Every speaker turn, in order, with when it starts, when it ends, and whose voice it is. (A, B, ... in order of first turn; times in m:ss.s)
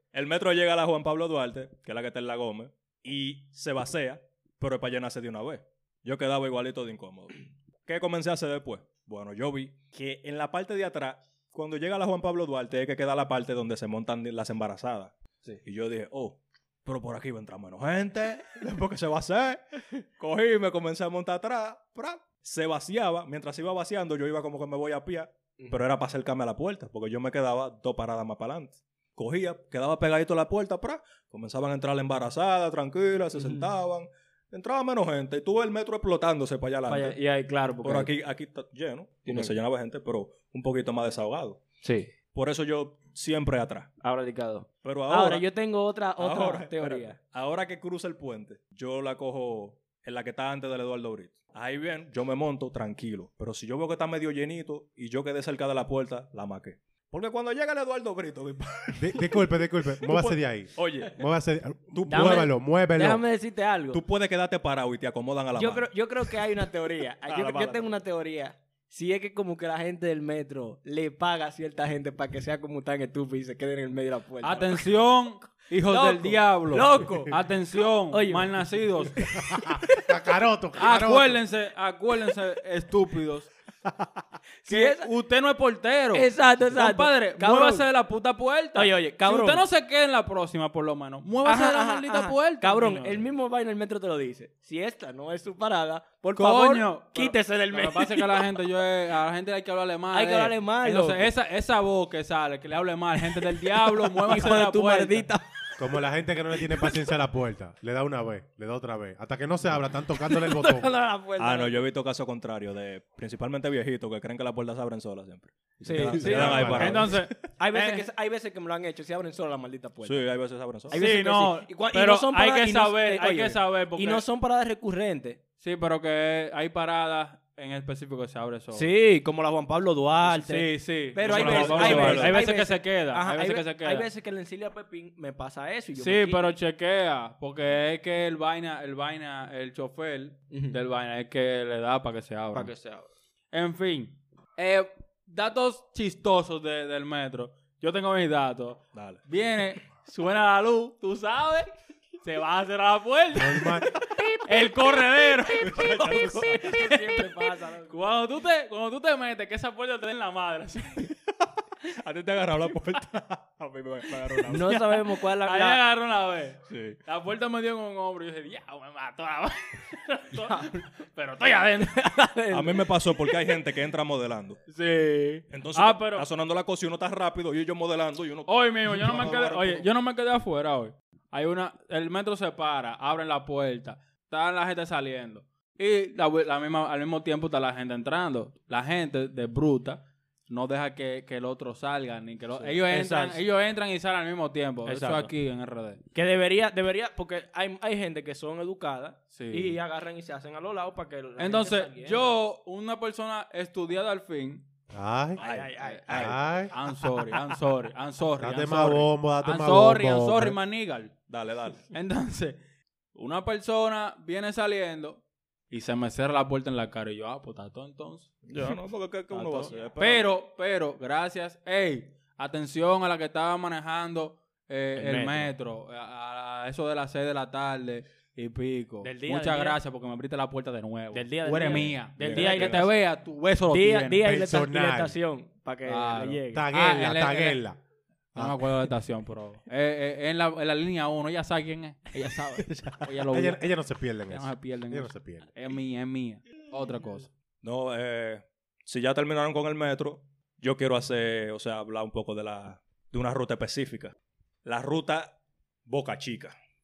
0:00.1-0:37.2 A
0:33.4-0:33.7 B
0:36.9-0:38.1 B
0:37.8-0:41.6 A
0:39.3-0:39.6 B
0:41.8-0:42.1 B
0:42.3-0:43.9 A
0:44.0-0:47.2 B
0:44.8-0:45.4 A
0:46.2-0:59.5 A
0:59.0-1:03.2 C
1:00.0-1:01.2 A
1:01.9-1:02.5 A
1:02.1-1:04.0 B
1:03.9-1:05.9 A
1:05.6-1:14.9 B
1:07.2-1:07.9 A
1:14.4-1:19.2 D
1:15.8-1:17.4 B
1:18.1-1:20.0 B
1:19.4-1:21.4 C
1:20.8-1:23.5 D
1:24.6-1:25.1 B
1:24.7-1:33.2 D
1:26.1-1:27.8 B
1:28.7-1:29.6 B
1:31.4-1:38.5 B
1:36.4-1:45.3 D
1:40.1-1:41.3 B
1:43.3-1:46.0 B
1:45.8-1:50.9 C
1:46.6-1:47.0 B
1:50.2-1:51.8 B
1:51.4-1:57.3 A
1:55.8-2:00.2 B
1:55.9-1:57.2 C
1:56.2-1:58.1 D
2:00.0-2:01.0 A
2:00.9-2:05.4 B
2:00.9-2:04.2 D
2:05.6-2:08.9 D
2:08.7-2:16.5 B
2:10.2-2:14.1 D
2:11.2-2:12.4 A
2:16.0-2:22.7 D
2:20.5-2:20.8 B
2:22.5-2:23.1 B
2:23.5-2:31.7 D
2:28.9-2:29.2 A
2:32.2-2:41.1 D
2:33.3-2:33.9 C
2:34.0-2:34.4 B
2:35.5-2:37.9 B
2:35.6-2:36.5 A
2:41.8-2:44.9 A
2:44.4-2:45.8 B
2:45.2-2:52.0 D
2:46.7-2:47.0 A
2:50.3-2:50.8 B
2:51.8-2:53.4 B
2:52.5-2:54.6 A
2:54.7-2:56.2 D
2:55.5-2:59.8 A
2:58.5-3:16.0 D
3:12.6-3:13.4 B
3:14.8-3:15.3 B
3:16.1-3:22.3 B
3:19.3-3:19.8 D
3:21.4-3:24.6 D
3:24.9-3:25.4 C
3:25.4-3:26.3 B
3:25.4-3:26.4 A
3:25.8-3:31.1 D
3:26.1-3:26.7 C
3:28.4-3:30.6 C
3:31.3-3:31.8 A
3:31.9-3:32.6 D
3:33.1-3:38.8 D
3:38.5-3:40.3 A
3:39.3-3:54.2 D
3:45.0-3:45.5 B
3:49.0-3:49.8 B
3:51.1-3:52.9 B
3:51.6-3:52.9 A
3:53.7-3:56.6 B
3:54.2-3:55.2 C
3:55.8-3:57.6 D
3:56.5-3:57.8 C
3:58.3-3:58.9 C
3:58.3-4:03.6 D
4:02.6-4:02.9 B
4:03.2-4:05.5 C
4:04.3-4:07.3 D
4:07.6-4:15.4 A
4:15.9-4:16.6 A